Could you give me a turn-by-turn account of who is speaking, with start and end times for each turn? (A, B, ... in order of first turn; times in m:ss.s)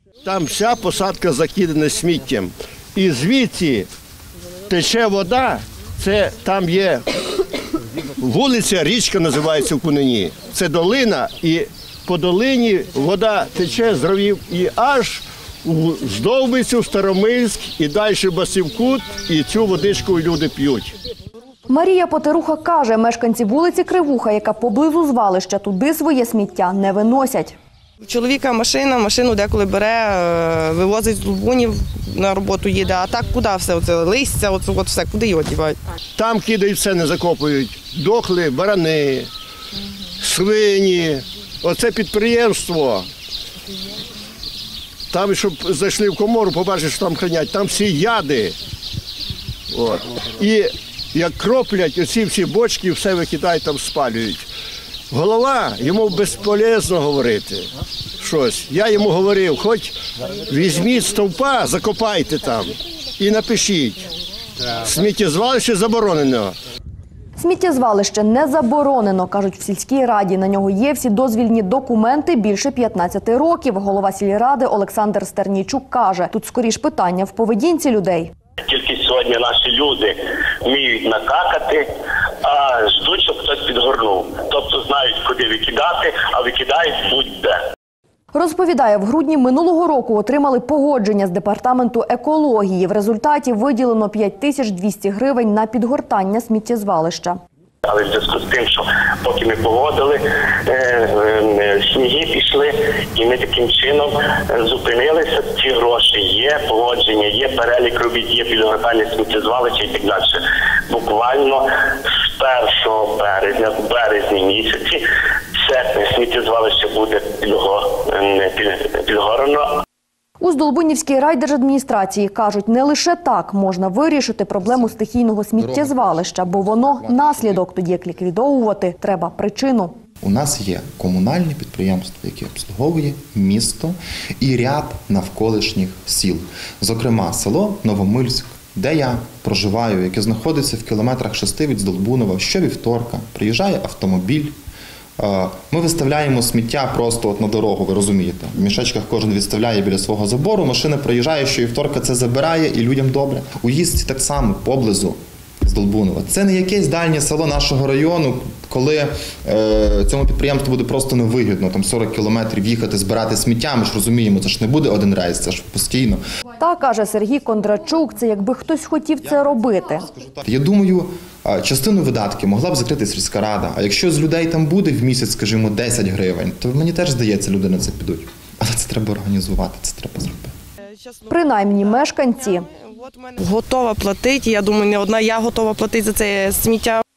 0:00.2-0:03.9 A
0:04.7-0:07.1 A
0:08.1-0:20.9 A
0:21.7-0:27.6 B
0:28.0-0:35.8 C
0:36.2-0:39.3 A
0:40.2-0:43.0 A
0:45.1-0:48.5 A
0:49.7-0:54.5 A
0:55.1-0:57.7 A
0:58.2-0:59.9 A
1:00.5-1:04.0 A
1:04.8-1:06.5 A
1:07.4-1:18.3 B
1:18.6-1:21.9 D
1:22.4-1:27.6 D
1:28.3-1:37.4 B
1:37.8-1:55.0 D
1:55.6-1:59.8 D
2:00.4-2:09.9 B
2:04.6-2:04.9 E
2:05.6-2:07.6 E
2:10.2-2:24.5 E
2:25.2-2:46.2 E
2:46.6-2:50.1 B
2:49.2-3:00.5 E
3:01.0-3:07.0 C
3:01.3-3:02.7 B